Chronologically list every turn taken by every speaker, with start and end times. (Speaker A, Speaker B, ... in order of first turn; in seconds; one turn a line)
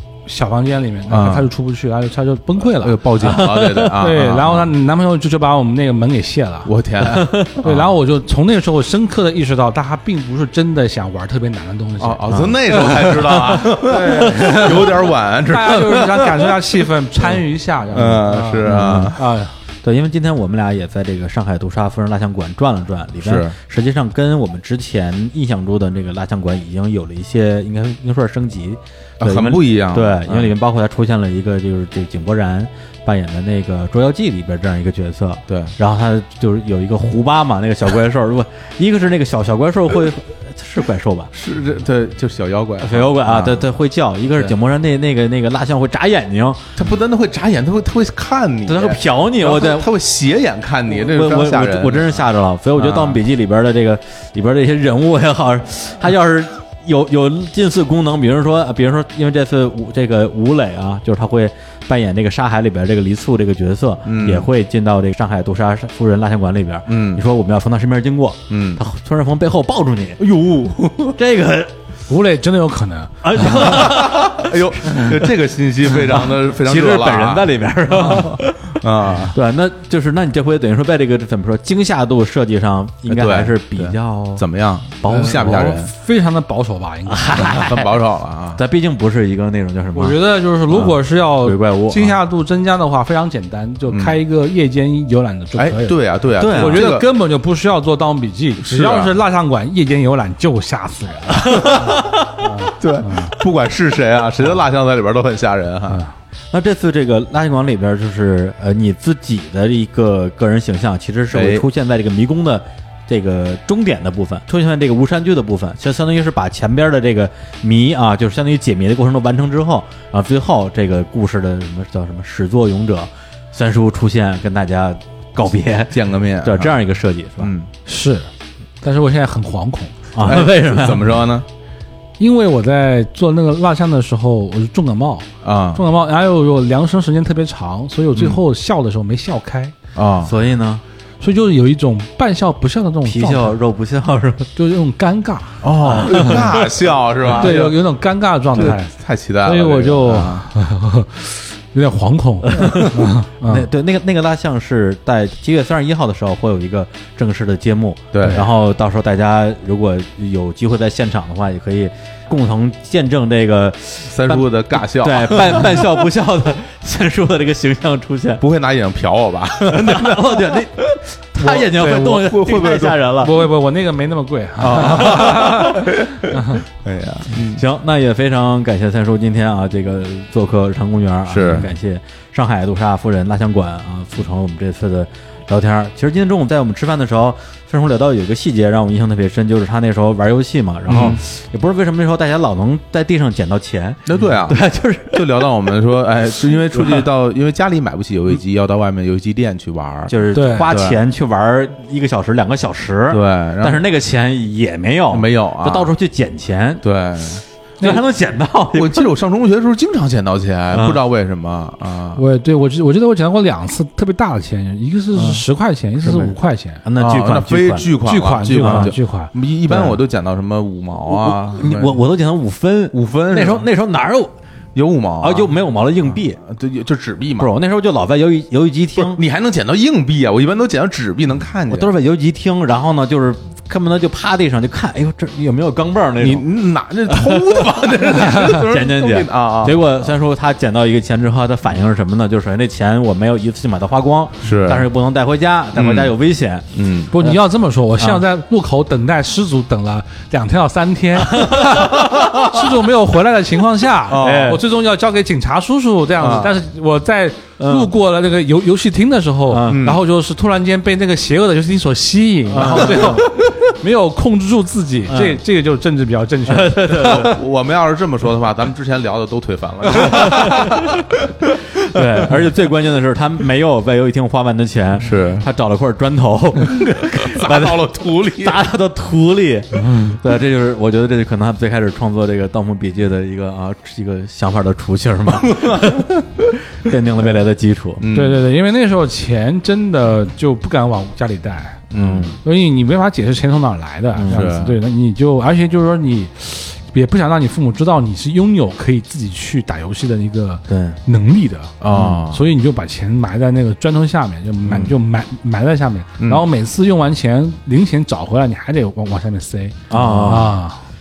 Speaker A: 0.3-6.7
Speaker B: 1.1-1.5
Speaker B: 2.7-4.7
Speaker C: 3.2-4.0
Speaker B: 6.7-7.9
Speaker C: 7.2-7.5
Speaker A: 7.6-19.6
Speaker B: 12.0-17.4
Speaker C: 12.3-13.7
Speaker B: 17.9-19.2
Speaker C: 18.6-19.2
Speaker C: 19.8-41.3
Speaker B: 23.2-23.6
Speaker B: 29.2-30.5
Speaker B: 35.5-35.7
Speaker B: 41.3-43.6
Speaker C: 42.8-46.8
Speaker B: 46.8-52.2
Speaker C: 48.7-49.9
Speaker C: 50.9-70.2
Speaker B: 52.8-53.2
Speaker B: 64.1-64.5
Speaker B: 66.9-67.2
Speaker B: 68.5-68.8
Speaker B: 70.2-71.2
Speaker C: 71.2-71.7
Speaker A: 72.1-73.9
Speaker C: 73.2-74.6
Speaker B: 73.5-79.4
Speaker C: 76.1-84.5
Speaker B: 83.1-85.9
Speaker C: 85.0-85.8
Speaker A: 85.1-87.7
Speaker C: 87.1-87.9
Speaker B: 87.5-88.6
Speaker C: 88.6-90.2
Speaker A: 89.9-103.3
Speaker C: 90.7-92.2
Speaker B: 93.9-94.2
Speaker B: 95.6-97.1
Speaker C: 96.3-96.9
Speaker B: 98.6-99.1
Speaker B: 101.4-102.0
Speaker B: 102.8-106.0
Speaker C: 106.5-127.5
Speaker B: 111.3-111.7
Speaker B: 125.9-126.7
Speaker B: 127.4-127.7
Speaker A: 127.9-128.3
Speaker A: 128.8-130.0
Speaker C: 130.2-131.2
Speaker B: 130.2-131.5
Speaker A: 132.2-139.8
Speaker B: 135.4-135.8
Speaker B: 138.2-138.4
Speaker B: 139.9-140.3
Speaker C: 140.2-140.8
Speaker A: 141.2-143.6
Speaker C: 143.1-144.5
Speaker A: 144.6-146.7
Speaker B: 145.6-147.8
Speaker C: 146.1-146.5
Speaker A: 147.3-148.9
Speaker B: 148.6-150.5
Speaker A: 149.4-153.7
Speaker C: 152.5-168.4
Speaker B: 158.1-158.5
Speaker B: 164.1-165.9
Speaker B: 168.4-173.0
Speaker C: 169.7-173.4
Speaker A: 171.6-172.1
Speaker A: 173.2-176.6
Speaker B: 174.6-177.6
Speaker C: 177.3-195.5
Speaker B: 181.3-181.7
Speaker B: 190.9-191.2
Speaker B: 194.1-201.0
Speaker C: 196.5-197.1
Speaker C: 200.1-206.8
Speaker A: 200.3-200.7
Speaker B: 203.1-203.8
Speaker B: 205.1-205.9
Speaker B: 206.8-207.4
Speaker C: 207.8-209.1
Speaker B: 208.7-212.2
Speaker C: 210.7-211.0
Speaker A: 212.2-216.8
Speaker B: 215.2-215.4
Speaker C: 216.0-216.3
Speaker C: 216.8-217.9
Speaker B: 216.9-222.0
Speaker A: 218.0-219.3
Speaker C: 218.6-218.9
Speaker C: 219.7-220.0
Speaker C: 221.1-224.3
Speaker B: 222.9-223.7
Speaker B: 224.8-225.5
Speaker C: 225.2-226.4
Speaker B: 226.1-227.5
Speaker C: 227.4-229.2
Speaker B: 229.0-231.9
Speaker C: 231.7-236.5
Speaker B: 236.2-240.1
Speaker C: 237.1-247.4
Speaker B: 244.4-244.9
Speaker B: 245.8-246.1
Speaker B: 246.7-247.1
Speaker A: 247.1-267.3
Speaker C: 248.0-248.2
Speaker C: 251.3-252.4
Speaker B: 254.1-254.6
Speaker C: 254.1-254.6
Speaker B: 256.2-256.6
Speaker C: 257.6-257.9
Speaker C: 259.5-259.9
Speaker B: 259.7-260.0
Speaker C: 262.5-263.4
Speaker B: 262.6-263.3
Speaker C: 265.1-265.4
Speaker C: 266.5-267.4
Speaker B: 267.0-272.4
Speaker C: 269.9-271.1
Speaker C: 271.8-288.1
Speaker B: 275.0-275.5
Speaker B: 276.8-278.6
Speaker A: 279.8-280.1
Speaker B: 285.4-286.2
Speaker B: 288.0-288.4
Speaker A: 288.1-291.9
Speaker B: 291.9-292.3
Speaker C: 292.0-292.4
Speaker A: 292.4-301.8
Speaker C: 294.1-294.5
Speaker B: 294.3-294.8
Speaker C: 300.7-301.0
Speaker B: 301.8-302.4
Speaker C: 301.9-302.2
Speaker A: 302.3-310.8
Speaker C: 304.7-304.9
Speaker C: 309.9-310.6